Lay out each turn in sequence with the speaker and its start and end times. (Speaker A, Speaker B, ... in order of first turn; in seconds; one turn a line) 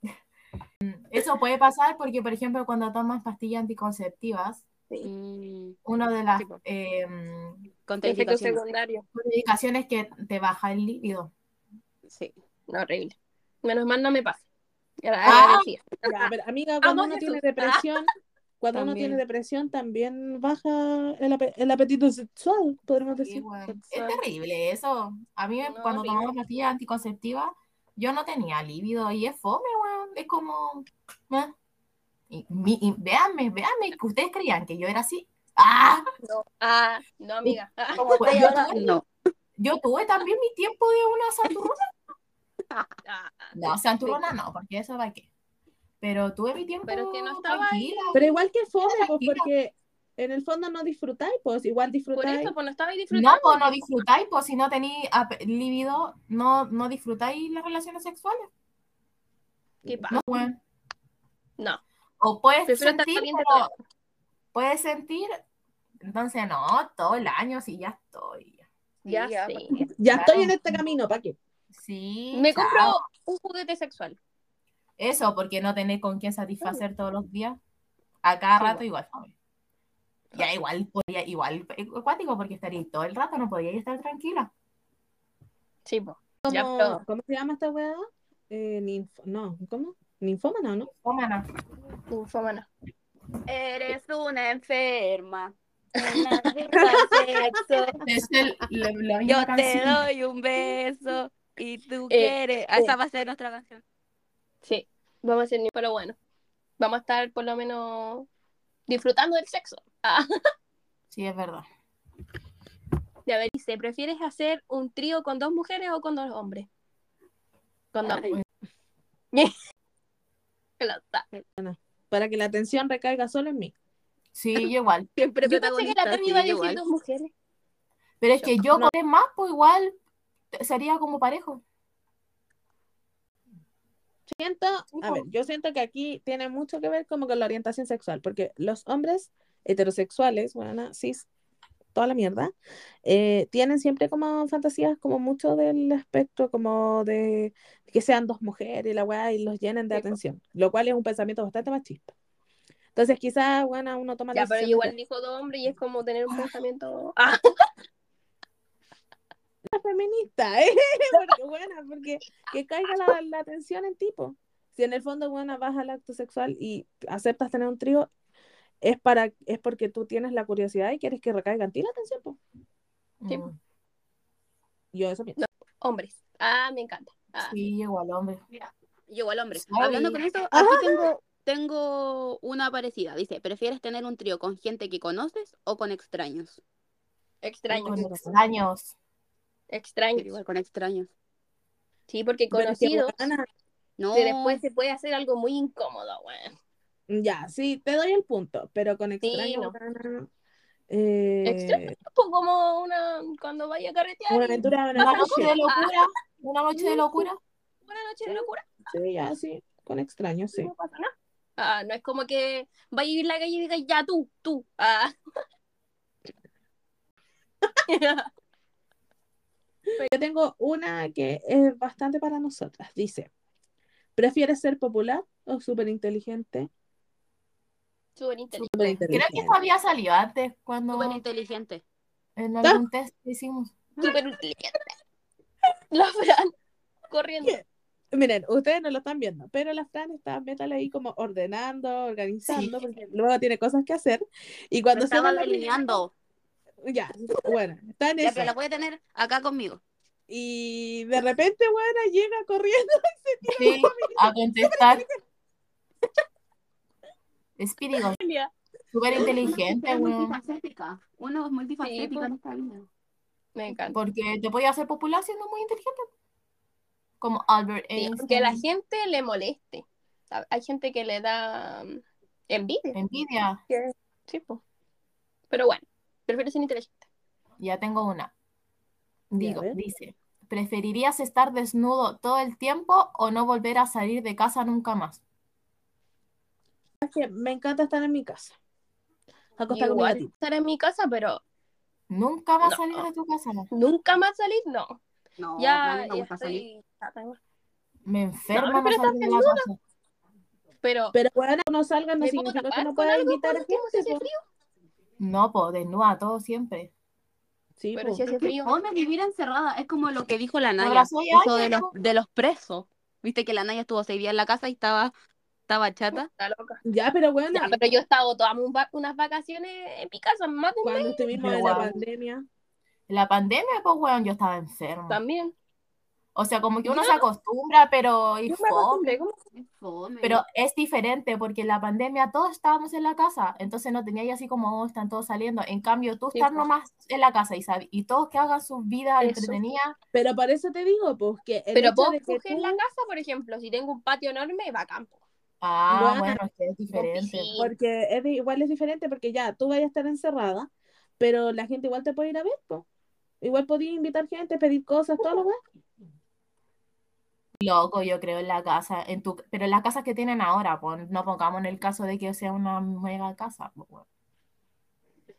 Speaker A: 0.8-4.6
Speaker B: 5.0-5.8
Speaker A: 5.8-7.7
Speaker B: 7.8-8.6
Speaker C: 8.0-9.0
Speaker A: 9.1-11.3
Speaker B: 12.1-12.3
Speaker C: 12.7-14.4
Speaker C: 15.0-18.0
Speaker A: 15.2-15.7
Speaker D: 15.3-18.1
Speaker D: 18.6-23.4
Speaker B: 18.7-19.2
Speaker A: 23.2-31.5
Speaker C: 25.6-26.3
Speaker A: 32.3-36.0
Speaker C: 36.2-38.6
Speaker B: 38.0-39.0
Speaker A: 38.1-39.0
Speaker A: 39.6-41.8
Speaker C: 43.0-43.5
Speaker A: 43.5-45.3
Speaker A: 46.0-48.2
Speaker C: 46.9-48.3
Speaker D: 48.1-52.5
Speaker A: 48.9-49.5
Speaker C: 52.1-53.8
Speaker A: 53.1-58.5
Speaker C: 59.8-60.2
Speaker A: 60.1-60.6
Speaker A: 62.2-63.7
Speaker C: 62.6-63.7
Speaker A: 64.5-65.4
Speaker A: 66.0-68.6
Speaker B: 69.0-69.9
Speaker C: 69.0-69.8
Speaker D: 70.0-71.4
Speaker A: 70.1-70.8
Speaker A: 71.7-73.0
Speaker C: 72.3-74.2
Speaker A: 75.0-77.6
Speaker A: 78.2-79.3
Speaker A: 80.3-84.5
Speaker C: 85.8-87.0
Speaker D: 86.4-90.9
Speaker A: 90.9-91.5
Speaker C: 92.1-92.7
Speaker B: 93.5-98.0
Speaker C: 96.0-96.2
Speaker D: 96.8-97.5
Speaker A: 98.0-100.0
Speaker B: 99.2-103.8
Speaker C: 102.1-102.9
Speaker C: 104.6-106.2
Speaker C: 106.8-108.3
Speaker C: 108.9-110.3
Speaker A: 111.1-111.6
Speaker C: 113.3-116.7
Speaker C: 117.9-118.3
Speaker C: 120.8-121.2
Speaker D: 121.6-123.7
Speaker A: 124.3-125.1
Speaker B: 125.2-126.8
Speaker C: 125.4-127.3
Speaker A: 128.2-129.9
Speaker A: 130.5-131.6
Speaker D: 134.3-141.3
Speaker C: 134.9-135.2
Speaker D: 141.9-142.5
Speaker D: 143.0-152.1
Speaker C: 149.9-150.2
Speaker D: 152.9-154.9
Speaker C: 154.3-157.4
Speaker D: 159.7-168.1
Speaker D: 168.8-172.4
Speaker A: 173.2-173.6
Speaker D: 174.9-175.4
Speaker C: 175.4-177.5
Speaker A: 177.4-178.4
Speaker B: 178.5-186.6
Speaker A: 179.5-180.2
Speaker D: 180.5-181.1
Speaker C: 187.4-188.1
Speaker A: 187.8-188.9
Speaker D: 187.8-188.3
Speaker C: 189.7-190.3
Speaker B: 190.2-191.1
Speaker C: 192.1-193.2
Speaker D: 192.5-193.4
Speaker B: 194.0-194.6
Speaker C: 194.1-196.5
Speaker D: 197.1-200.3
Speaker C: 199.2-199.7
Speaker D: 200.9-201.9
Speaker C: 201.4-205.9
Speaker D: 204.3-205.5
Speaker A: 204.9-207.4
Speaker C: 206.8-207.2
Speaker C: 207.9-208.9
Speaker D: 208.2-210.7
Speaker C: 210.5-215.1
Speaker C: 217.9-218.3
Speaker D: 220.0-223.3
Speaker D: 224.2-226.7
Speaker C: 228.2-229.0
Speaker D: 228.7-229.6
Speaker A: 229.1-231.2
Speaker B: 230.9-231.8
Speaker A: 232.4-233.7
Speaker C: 234.0-234.9
Speaker C: 235.9-236.5
Speaker C: 237.1-237.6
Speaker D: 237.4-245.9
Speaker B: 244.9-246.1
Speaker D: 246.8-248.5
Speaker B: 248.2-249.8
Speaker D: 250.3-255.0
Speaker A: 253.6-255.0
Speaker A: 257.6-258.2
Speaker C: 258.1-258.5
Speaker A: 258.9-260.4
Speaker B: 259.2-262.9
Speaker C: 261.8-262.3
Speaker C: 263.5-264.0
Speaker A: 263.9-266.1
Speaker A: 267.2-268.6
Speaker C: 267.9-273.0
Speaker A: 272.9-273.6
Speaker C: 273.7-274.6
Speaker C: 275.5-277.0
Speaker A: 277.6-278.3
Speaker A: 279.3-285.2
Speaker D: 279.4-279.8
Speaker D: 287.0-288.5
Speaker D: 289.6-290.3
Speaker C: 289.7-291.4
Speaker A: 292.1-293.7
Speaker C: 292.6-293.1
Speaker C: 293.7-295.0
Speaker B: 295.4-296.6
Speaker C: 295.6-297.4
Speaker A: 298.1-299.8
Speaker C: 298.5-299.7
Speaker C: 300.8-301.1
Speaker D: 301.1-304.2
Speaker C: 302.2-304.4
Speaker A: 305.2-306.9
Speaker D: 307.8-308.2
Speaker C: 307.9-308.7
Speaker B: 308.4-315.1
Speaker A: 310.8-311.9
Speaker B: 315.7-316.3
Speaker C: 316.2-316.8
Speaker D: 316.8-317.7
Speaker C: 317.5-321.9
Speaker D: 320.8-322.4
Speaker A: 321.3-321.9
Speaker A: 323.1-325.2
Speaker C: 325.1-325.5
Speaker A: 326.3-329.2
Speaker C: 326.9-327.2
Speaker C: 328.5-329.4
Speaker B: 329.5-330.4
Speaker A: 330.2-339.9
Speaker C: 336.3-336.6
Speaker C: 339.2-339.6
Speaker D: 340.1-342.8
Speaker C: 341.7-345.2
Speaker A: 345.6-347.5
Speaker D: 345.9-346.4
Speaker C: 346.9-347.7
Speaker D: 347.6-350.7
Speaker D: 351.2-352.9
Speaker D: 353.4-355.6
Speaker A: 357.6-364.0